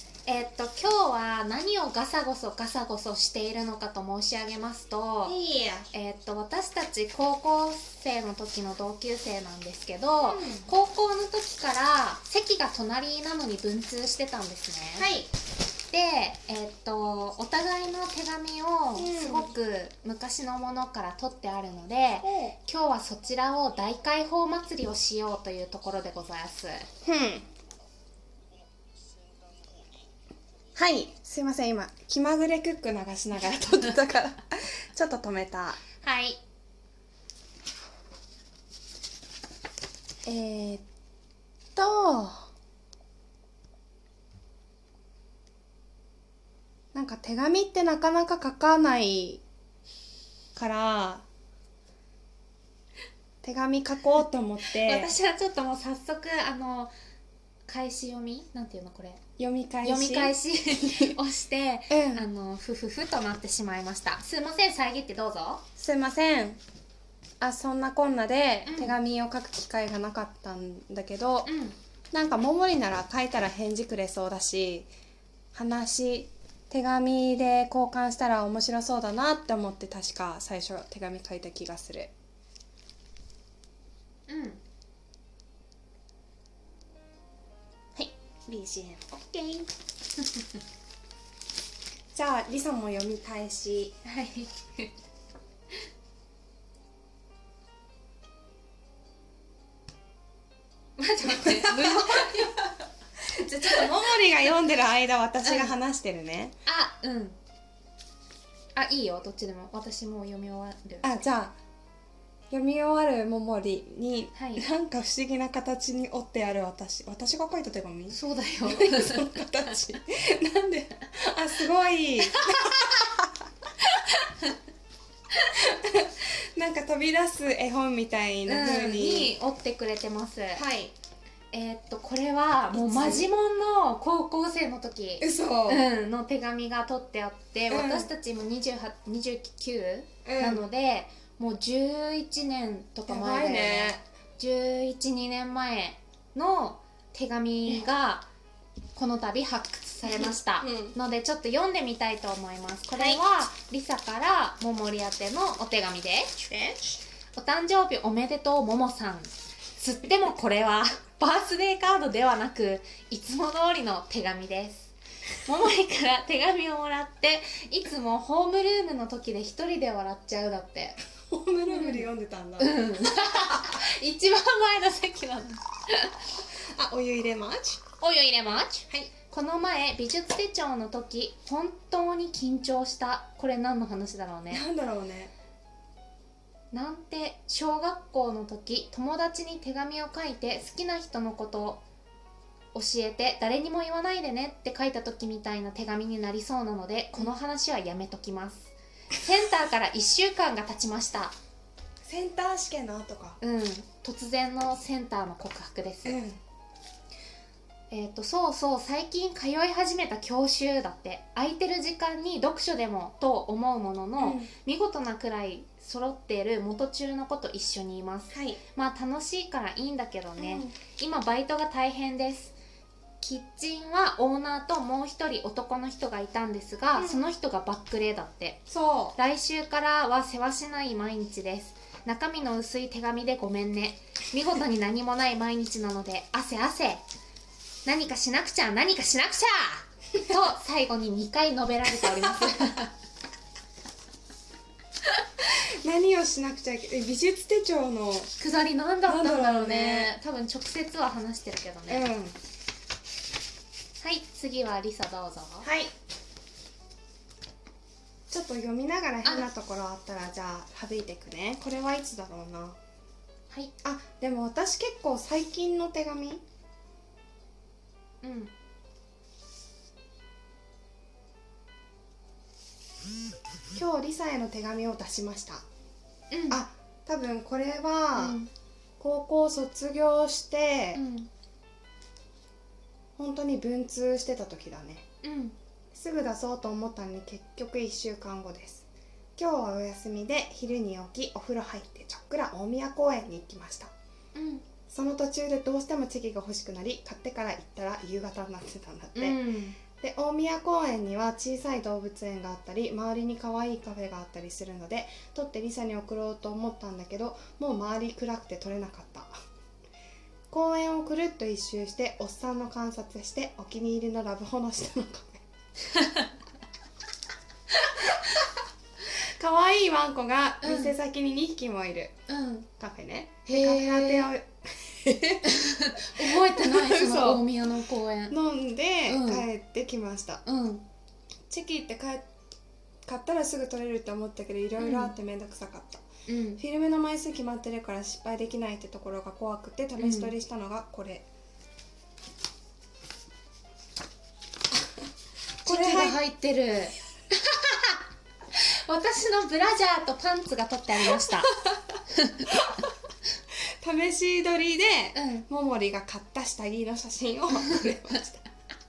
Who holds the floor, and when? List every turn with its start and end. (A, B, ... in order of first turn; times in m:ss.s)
0:00.3-0:05.4 A
0:05.2-0:05.9 B
0:05.9-0:15.1 A
0:10.2-0:10.7 B
0:15.0-0:15.3 B
0:15.9-0:26.9 A
0:19.0-0:19.5 B
0:22.2-0:22.6 B
0:27.0-0:27.5 B
0:30.8-0:35.8 B
0:36.0-0:36.4 A
0:40.3-0:40.8 B
0:41.8-0:42.5 B
0:46.9-0:49.4 B
0:50.6-0:51.2 B
0:53.4-0:55.1 B
0:54.7-0:56.9 A
0:57.7-0:59.2 A
0:59.4-1:01.2 B
0:59.8-1:05.6 A
1:01.9-1:02.3 B
1:05.8-1:06.6 B
1:07.4-1:11.5 B
1:08.7-1:09.0 A
1:11.4-1:11.8 A
1:12.1-1:14.9 B
1:15.5-1:22.1 B
1:24.3-1:24.6 A
1:28.0-1:29.1 B
1:29.1-1:29.7 A
1:32.1-1:34.0 B
1:34.0-1:34.9 A
1:41.0-1:42.6 A
1:41.2-1:42.6 B
1:43.3-1:46.5 B
1:43.7-1:44.1 A
1:45.4-1:45.7 A
1:46.7-1:47.4 A
1:48.8-1:51.1 A
1:51.0-1:51.6 B
1:52.5-2:03.3 B
1:54.4-1:54.6 A
1:58.1-1:59.4 A
2:02.2-2:03.1 A
2:03.8-2:04.6 A
2:05.5-2:09.4 B
2:08.5-2:10.6 A
2:10.6-2:10.9 B
2:11.5-2:28.3 A
2:12.8-2:13.3 B
2:15.2-2:15.9 B
2:17.7-2:18.1 B
2:20.2-2:20.6 B
2:23.1-2:24.0 B
2:29.0-2:36.3 A
2:30.0-2:31.0 B
2:33.0-2:33.2 B
2:36.4-2:37.0 B
2:37.4-2:44.9 A
2:45.4-2:51.0 A
2:51.3-2:53.5 B
2:51.7-2:52.1 A
2:52.6-2:56.1 A
2:56.7-2:57.8 B
2:58.0-3:04.6 A
3:04.5-3:05.3 B
3:06.7-3:11.8 A
3:12.7-3:21.3 A
3:22.0-3:23.4 B
3:23.4-3:26.2 A
3:26.0-3:26.4 B
3:27.9-3:42.6 A
3:34.2-3:34.5 B
3:38.3-3:38.6 B
3:40.4-3:40.8 B
3:43.2-3:48.6 A
3:47.0-3:47.2 B
3:48.7-3:49.2 B
3:49.2-3:57.0 A
3:57.8-4:02.9 A
4:05.4-4:08.3 B
4:08.4-4:12.0 A
4:09.1-4:10.1 B
4:11.9-4:12.4 B
4:14.0-4:15.7 A
4:15.6-4:15.9 B
4:18.3-4:22.8 B
4:23.8-4:26.4 B
4:28.2-4:28.5 A
4:33.8-4:35.6 B
4:36.3-4:36.6 A
4:36.5-4:38.4 B
4:38.2-4:38.5 A
4:39.0-4:41.0 B
4:40.9-4:41.3 A
4:43.2-4:45.1 B
4:45.2-4:45.6 A
4:45.9-4:48.9 B
4:49.4-4:53.9 B
4:54.4-4:54.6 A
4:54.9-4:59.4 B
4:59.2-4:59.8 A
5:00.0-5:09.3 B
5:10.5-5:15.4 B
5:16.0-5:16.2 A
5:19.1-5:22.2 B
5:20.6-5:20.9 A
5:22.3-5:22.7 A
5:22.8-5:27.5 B
5:23.5-5:24.3 A
5:25.4-5:28.4 A
5:28.3-5:30.4 B
5:29.1-5:29.4 A
5:30.4-5:30.8 A
5:31.5-5:32.3 B
5:33.1-5:36.0 B
5:34.8-5:35.1 A
5:36.3-5:36.6 A
5:36.6-5:41.2 B
5:40.0-5:40.3 A
5:45.6-5:46.2 B
5:45.7-5:48.0 A
5:48.5-5:51.5 A
5:52.1-5:52.6 A
5:52.5-5:52.9 B
5:53.8-5:58.4 B
5:55.2-5:55.5 A